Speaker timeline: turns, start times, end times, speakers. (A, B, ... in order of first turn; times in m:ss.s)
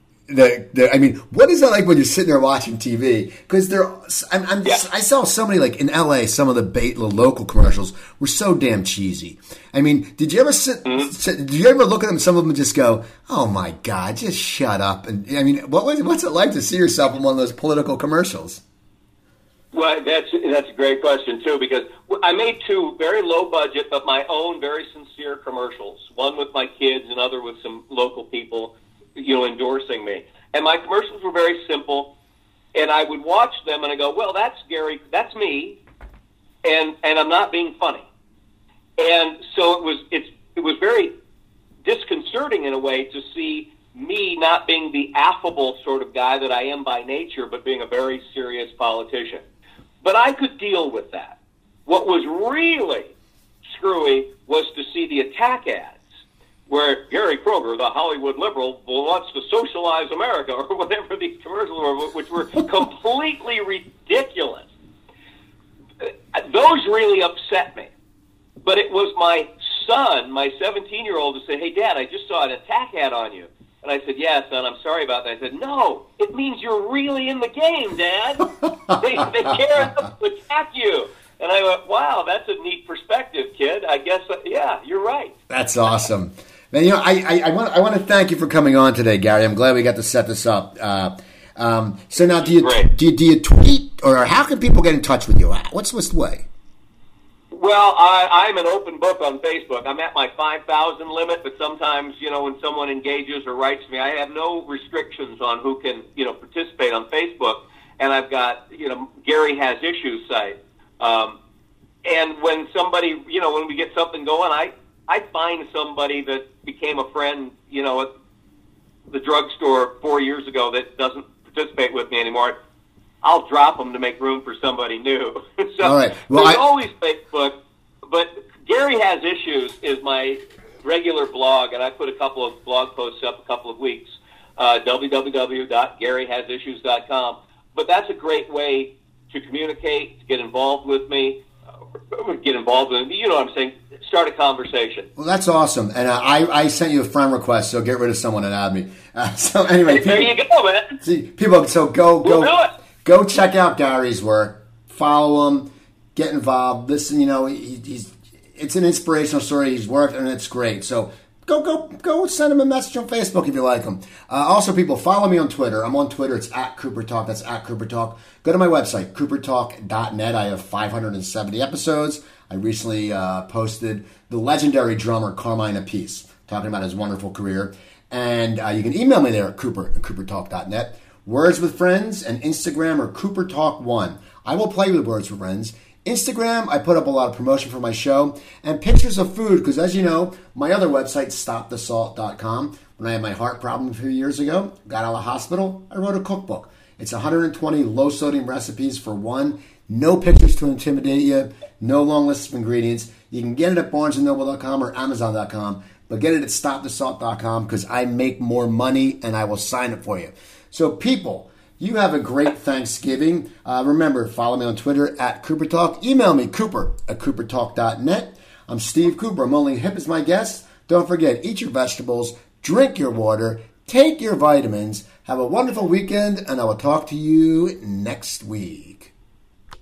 0:00.3-0:18.6 A
0:10.8-0:11.1 B
0:19.7-0:32.1 B
0:32.7-0:35.8 B
0:36.6-0:38.1 B
0:39.0-0:41.1 B
0:41.8-0:49.4 B
0:50.0-0:51.4 B
0:51.9-0:53.1 B
0:53.7-0:56.0 B
0:56.7-1:04.7 B
1:06.0-1:07.9 B
1:08.6-1:25.3 B
1:25.5-1:36.4 A
1:32.4-1:32.9 B
1:37.5-1:51.4 B
1:52.0-1:58.1 B
1:59.1-2:02.6 B
2:03.2-2:07.6 B
2:05.8-2:06.6 A
2:08.1-2:21.4 B
2:22.1-2:25.1 B
2:25.2-2:30.3 A
2:29.9-2:31.0 B
2:31.0-3:49.1 A
2:32.2-2:32.7 B